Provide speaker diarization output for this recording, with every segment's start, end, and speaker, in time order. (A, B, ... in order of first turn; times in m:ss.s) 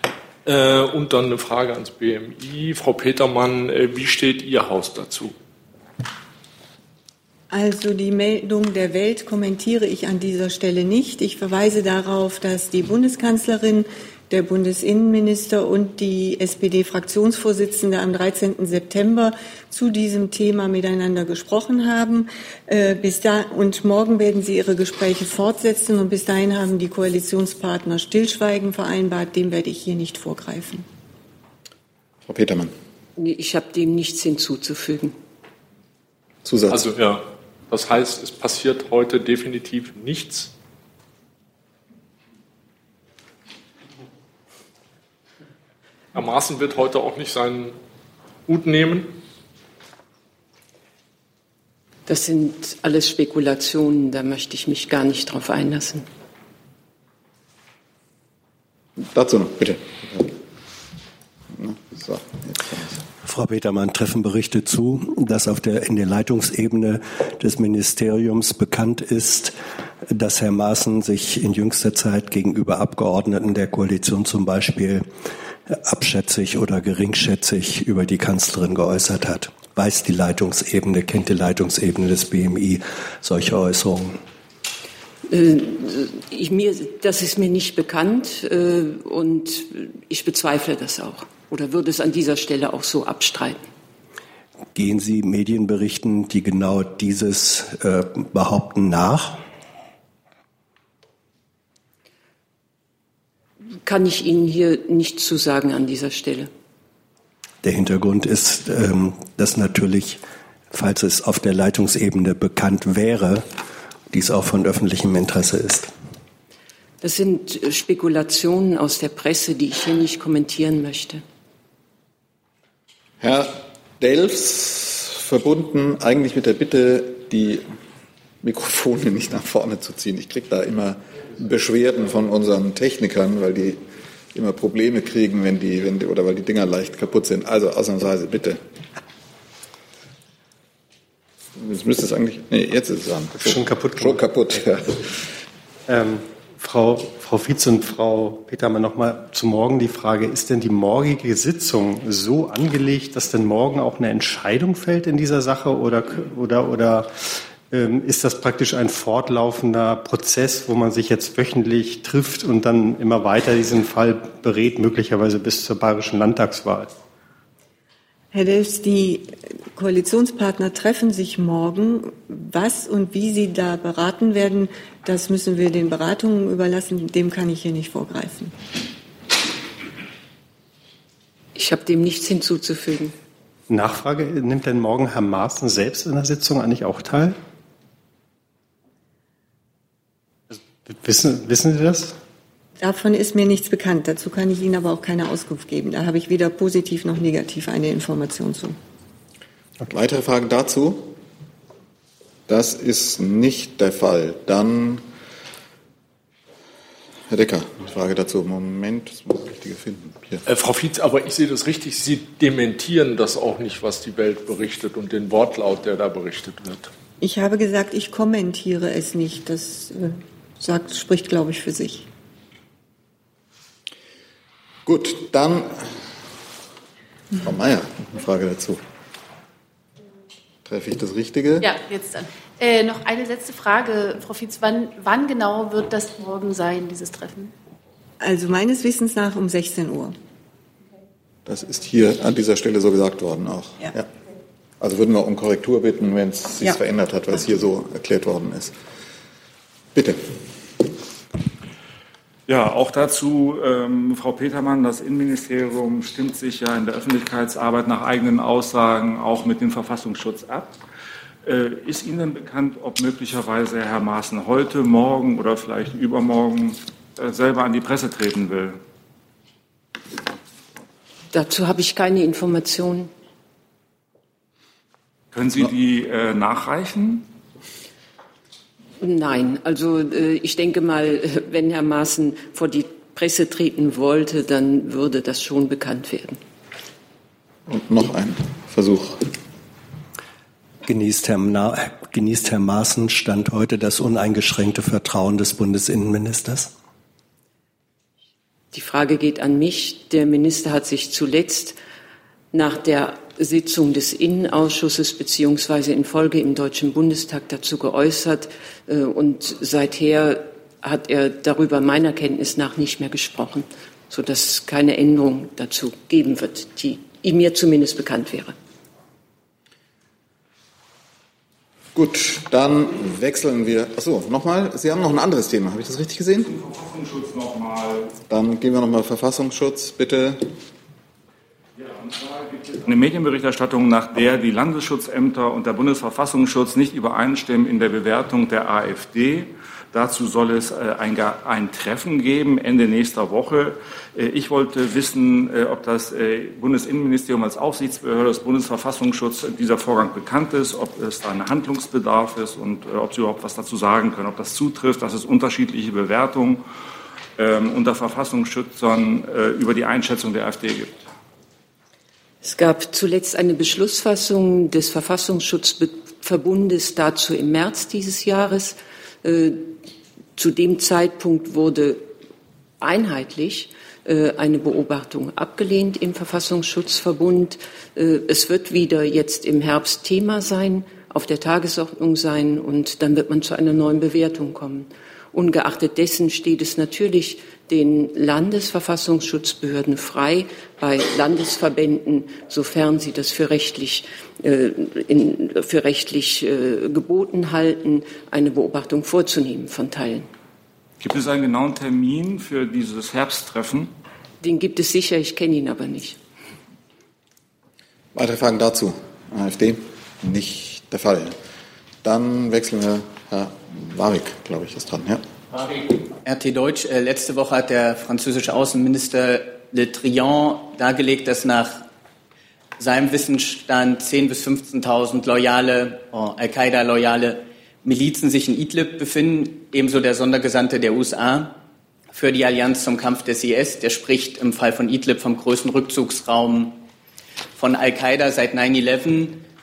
0:00.4-0:05.3 A
0:07.5-0:30.8 B
0:32.2-0:32.7 C
0:33.2-0:35.1 D
0:36.4-0:36.8 C
0:36.7-0:40.5 A
0:46.1-0:47.8 A
0:48.5-0:49.1 A
0:52.1-0:56.0 D
0:59.0-1:00.3 C
1:01.5-1:03.0 C
1:03.2-1:09.5 E
1:10.1-1:15.0 E
1:15.7-1:24.2 E
1:25.3-1:33.6 D
1:34.7-1:39.4 E
1:43.8-1:46.5 D
1:47.6-1:50.2 E
1:50.7-1:53.4 E
1:54.1-1:55.9 E
1:57.0-2:01.2 D
2:03.2-2:07.6 C
2:08.4-2:13.8 C
2:14.3-2:18.6 C
2:21.6-2:25.0 C
2:23.3-2:24.6 F
2:25.9-2:37.1 F
2:37.7-2:46.9 F
2:48.3-2:58.5 B
3:01.6-3:03.1 D
3:03.7-3:07.4 F
3:10.5-3:12.2 F
3:12.8-3:18.8 B
3:19.8-3:21.1 C
3:22.5-3:25.0 C
3:27.3-3:30.4 C
3:30.4-3:36.9 A
3:37.2-3:42.0 B
3:44.8-3:45.8 C
3:47.4-3:48.8 C
3:50.6-3:51.7 C
3:51.6-3:57.5 G
3:58.2-4:00.1 B
4:01.4-4:04.1 C
4:04.8-4:08.7 C
4:09.9-4:10.2 C
4:12.5-4:20.7 H
4:21.4-4:28.8 H
4:31.3-4:33.1 D
4:35.3-4:37.2 H
4:39.0-4:46.4 D
4:47.7-4:49.3 C
4:50.8-4:56.7 E
4:58.7-5:01.8 D
5:02.5-5:18.5 D
5:21.9-5:26.5 C
5:26.4-5:28.1 H
5:28.3-5:30.4 C
5:31.8-5:56.6 H
5:57.4-6:01.0 H
6:02.4-6:09.8 D
6:10.4-6:12.1 D
6:12.8-6:40.3 D
6:41.0-6:43.9 H
6:44.4-6:46.2 D
6:48.1-6:51.3 C
6:52.0-6:55.2 C
6:56.2-7:01.8 I
7:02.8-7:11.6 I
7:12.1-7:16.8 I
7:17.6-7:19.4 I